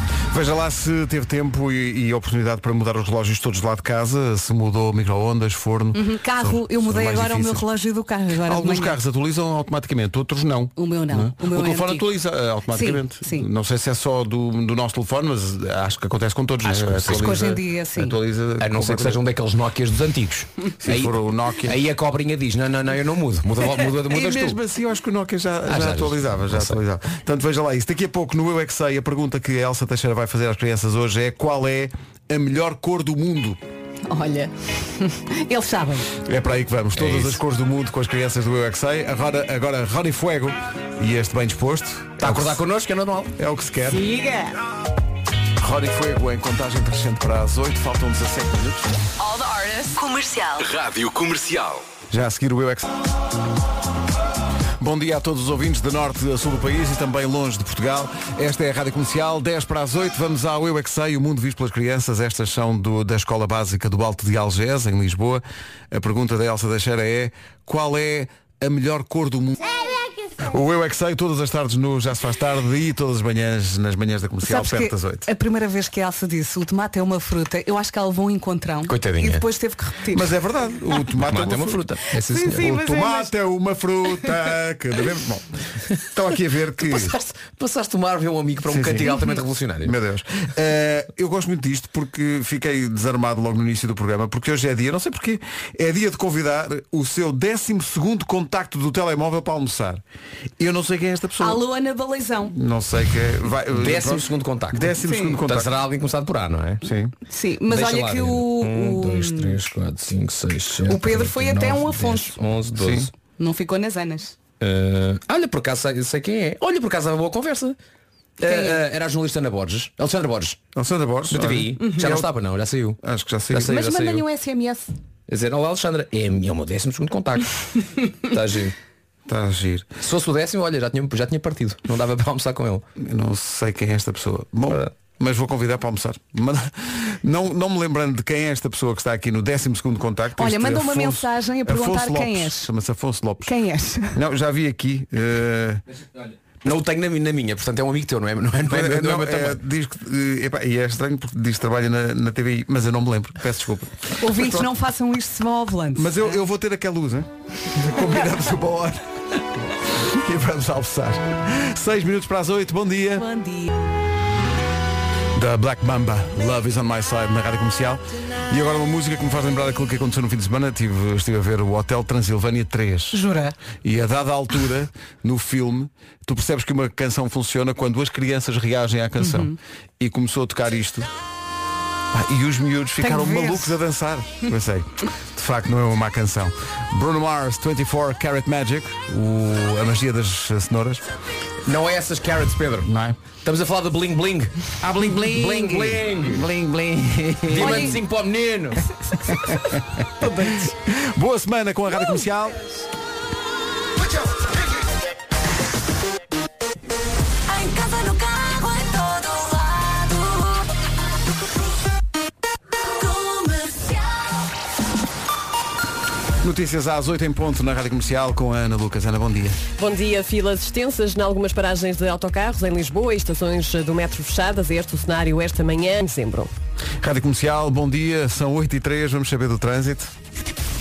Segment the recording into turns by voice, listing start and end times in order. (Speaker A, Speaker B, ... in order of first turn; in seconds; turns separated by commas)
Speaker A: 0.3-7.7, Speaker B: 5.9-9.0, Speaker A: 8.4-19.2, Speaker B: 10.8-12.1, Speaker B: 12.7-13.5, Speaker C: 16.6-17.4, Speaker B: 17.2-18.2, Speaker C: 18.6-24.6, Speaker A: 20.8-21.8, Speaker A: 24.0-33.6, Speaker C: 25.7-26.8, Speaker B: 34.1-36.1, Speaker A: 36.2-42.6, Speaker C: 37.0-37.4, Speaker C: 42.2-43.3, Speaker A: 43.4-44.0, Speaker B: 43.9-44.5, Speaker A: 45.6-48.9, Speaker D: 49.2-51.8, Speaker A: 52.1-52.9, Speaker A: 54.8-69.9, Speaker A: 70.4-75.3, Speaker B: 74.4-80.3, Speaker C: 78.9-79.4, Speaker A: 80.1-81.8, Speaker C: 81.2-82.7, Speaker B: 82.3-83.3, Speaker A: 82.5-87.2, Speaker C: 86.8-90.0, Speaker A: 88.7-89.3, Speaker A: 89.8-100.0, Speaker A: 100.6-101.6, Speaker B: 101.4-102.5, Speaker A: 102.5-105.7, Speaker C: 103.7-106.8, Speaker B: 105.0-105.4, Speaker A: 106.8-107.1, Speaker B: 107.3-109.6, Speaker C: 107.7-113.1, Speaker B: 110.9-112.4, Speaker A: 112.8-113.1, Speaker B: 113.4-114.4, Speaker C: 114.6-117.8, Speaker C: 118.4-120.6, Speaker B: 118.4-118.8, Speaker A: 120.8-122.3, Speaker C: 121.3-123.0, Speaker A: 123.0-123.8, Speaker C: 123.5-124.3, Speaker B: 123.7-124.9, Speaker C: 125.3-127.5, Speaker C: 128.2-128.8, Speaker A: 129.3-129.9, Speaker C: 130.0-132.8, Speaker A: 133.0-143.5, Speaker B: 140.4-142.7, Speaker B: 143.4-144.2, Speaker A: 144.1-145.8, Speaker C: 146.6-149.6, Speaker A: 148.7-154.7, Speaker B: 154.2-156.4, Speaker A: 156.0-159.1, Speaker A: 159.6-163.3, Speaker B: 163.2-163.7, Speaker A: 165.3-173.2, Speaker B: 173.1-173.6, Speaker A: 173.8-181.1, Speaker B: 179.2-179.5, Speaker A: 182.1-191.0, Speaker B: 183.0-183.8, Speaker C: 191.7-192.9, Speaker A: 192.8-193.2, Speaker C: 193.4-196.5, Speaker A: 194.8-198.0, Speaker C: 197.5-198.9, Speaker B: 197.6-198.0, Speaker A: 199.2-202.8, Speaker B: 200.2-200.7, Speaker D: 207.8-209.4, Speaker A: 216.4-219.6, Speaker E: 219.8-226.5, Speaker A: 227.0-230.1